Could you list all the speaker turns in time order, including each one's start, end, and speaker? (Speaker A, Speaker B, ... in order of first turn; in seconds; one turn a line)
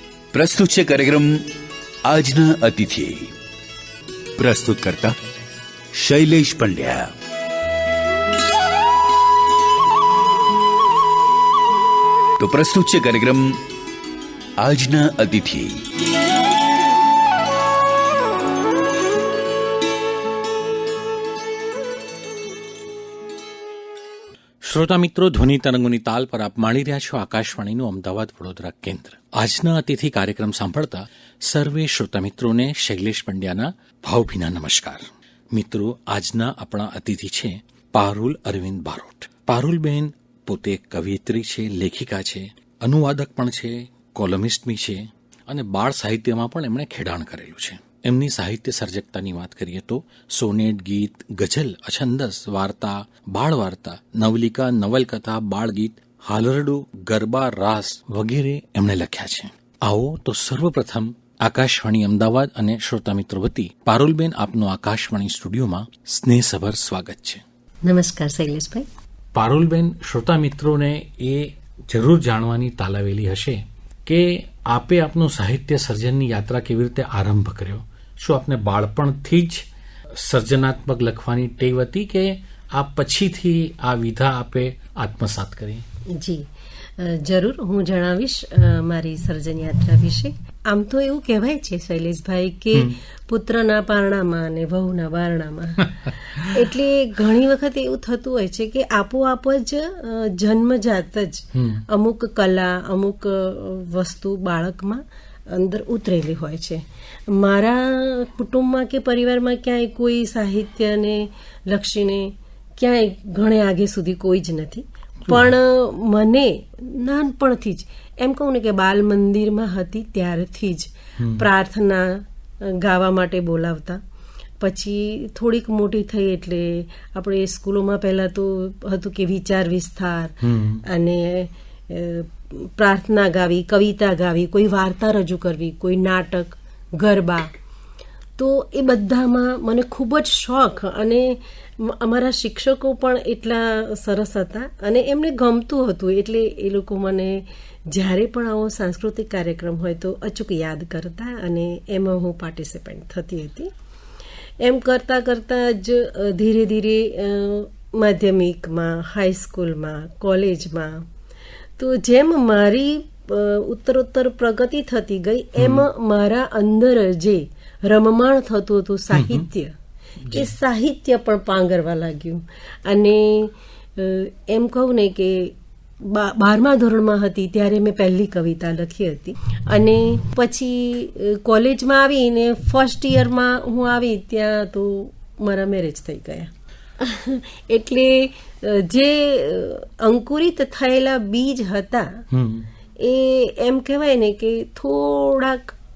Speaker A: 0.3-1.4
Speaker A: 2.1-3.3
Speaker A: 4.4-5.2
Speaker A: 5.9-7.1
Speaker A: 12.4-13.6
Speaker A: 14.6-15.8
Speaker B: 24.6-67.4
Speaker C: 67.8-68.9
Speaker B: 69.3-85.8
Speaker C: 86.1-124.0
Speaker B: 101.5-101.8
Speaker B: 115.2-115.5
Speaker B: 121.2-121.5
Speaker C: 124.6-137.5
Speaker B: 130.4-130.8
Speaker C: 138.4-153.7
Speaker C: 154.6-161.1
Speaker C: 161.8-169.8
Speaker B: 165.6-165.9
Speaker B: 169.1-169.5
Speaker C: 170.3-192.2
Speaker B: 192.3-192.7
Speaker C: 193.0-195.7